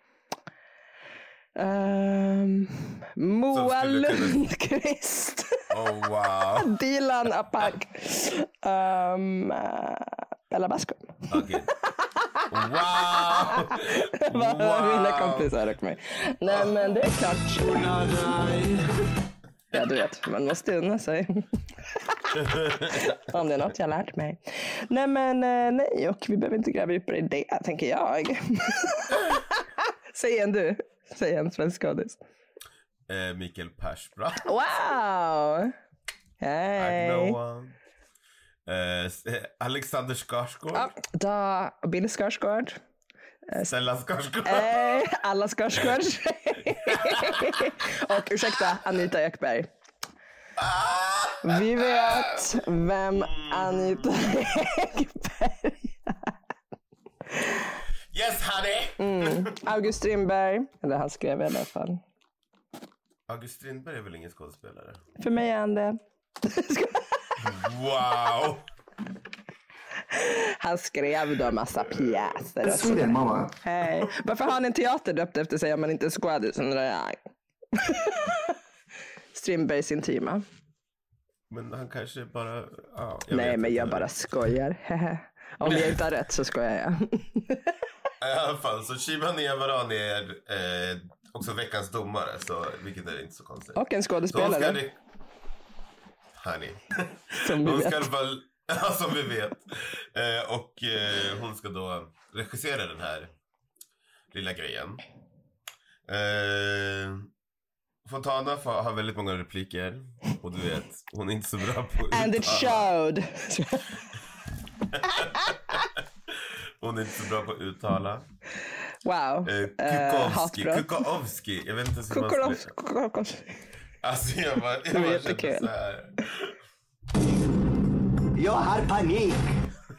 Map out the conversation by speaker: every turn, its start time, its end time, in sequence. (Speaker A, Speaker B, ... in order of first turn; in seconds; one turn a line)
Speaker A: 1.6-5.7
Speaker B: 3.5-4.4
Speaker B: 5.7-6.7
Speaker A: 6.6-17.9
Speaker B: 11.3-11.7
Speaker B: 12.5-15.5
Speaker B: 16.5-16.9
Speaker B: 17.5-19.0
Speaker A: 19.7-32.2
Speaker B: 22.4-23.1
Speaker B: 33.1-34.5
Speaker A: 34.4-35.7
Speaker A: 36.4-37.4
Speaker B: 36.8-37.8
Speaker B: 38.7-40.9
Speaker A: 40.7-42.8
Speaker B: 43.7-44.8
Speaker A: 44.5-49.7
Speaker B: 46.9-47.6
Speaker B: 50.6-52.6
Speaker A: 51.4-56.3
Speaker B: 53.1-54.1
Speaker A: 57.3-57.7
Speaker B: 58.1-59.6
Speaker A: 59.0-62.0
Speaker B: 63.3-65.0
Speaker A: 65.2-67.4
Speaker B: 67.4-68.7
Speaker A: 70.1-77.2
Speaker C: 72.6-73.5
Speaker A: 77.7-78.6
Speaker A: 79.3-80.4
Speaker B: 81.5-84.1
Speaker A: 83.3-87.7
Speaker B: 85.6-86.0
Speaker B: 88.2-95.0
Speaker A: 93.8-94.8
Speaker B: 96.3-103.3
Speaker A: 97.4-98.1
Speaker B: 104.3-105.0
Speaker B: 106.1-107.3
Speaker B: 108.0-112.9
Speaker A: 112.1-114.0
Speaker B: 114.9-118.3
Speaker A: 115.0-115.8
Speaker A: 119.0-121.0
Speaker B: 119.4-122.7
Speaker A: 122.1-123.6
Speaker B: 124.0-126.6
Speaker A: 124.9-125.7
Speaker C: 128.3-129.5